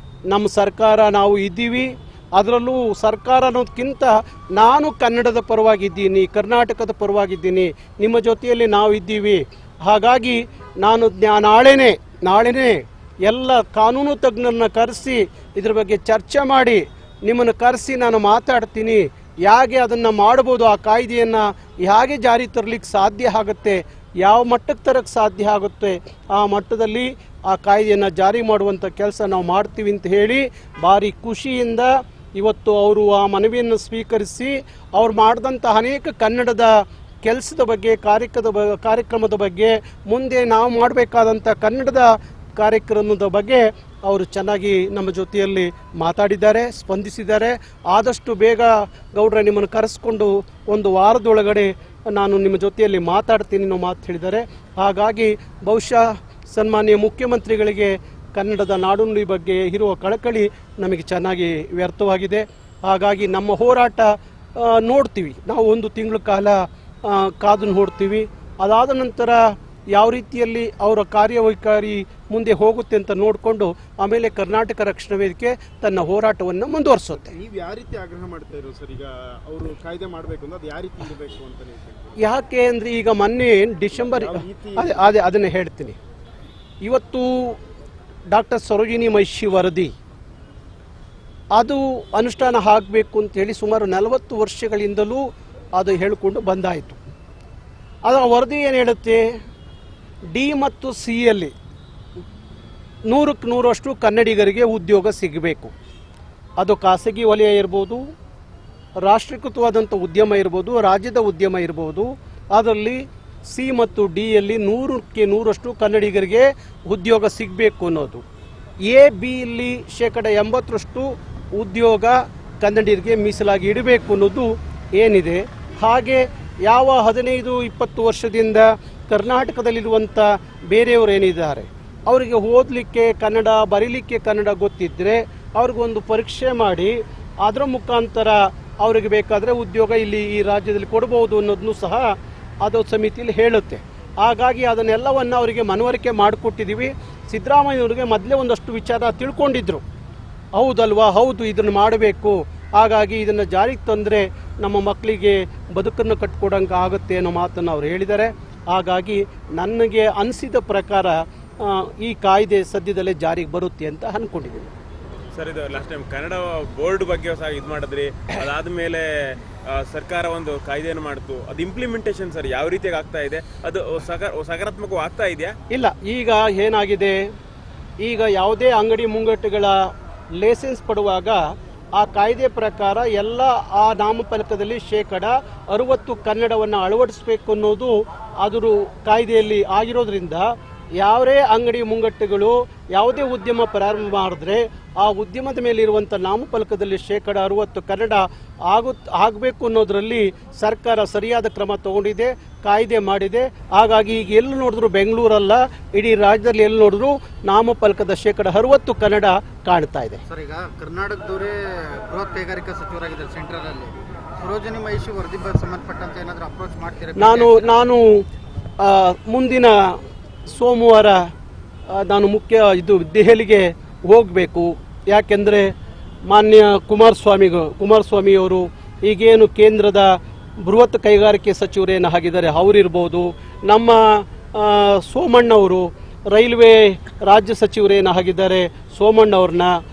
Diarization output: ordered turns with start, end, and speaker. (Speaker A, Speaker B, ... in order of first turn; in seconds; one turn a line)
Speaker A: 0.3-77.3
Speaker B: 77.2-82.2
Speaker A: 82.2-86.0
Speaker B: 84.0-85.1
Speaker A: 86.8-87.6
Speaker A: 88.3-89.9
Speaker A: 91.5-95.2
Speaker A: 95.8-97.0
Speaker A: 98.0-99.2
Speaker A: 100.3-101.5
Speaker A: 103.1-105.7
Speaker A: 106.6-108.0
Speaker A: 109.0-118.2
Speaker A: 118.8-142.1
Speaker A: 142.6-149.8
Speaker A: 150.6-164.7
Speaker C: 165.3-175.6
Speaker A: 175.7-177.2
Speaker A: 178.0-181.4
Speaker A: 181.9-210.2
Speaker D: 210.3-217.7
Speaker A: 217.2-218.2
Speaker A: 218.8-221.3
Speaker A: 221.9-225.7
Speaker A: 226.3-239.7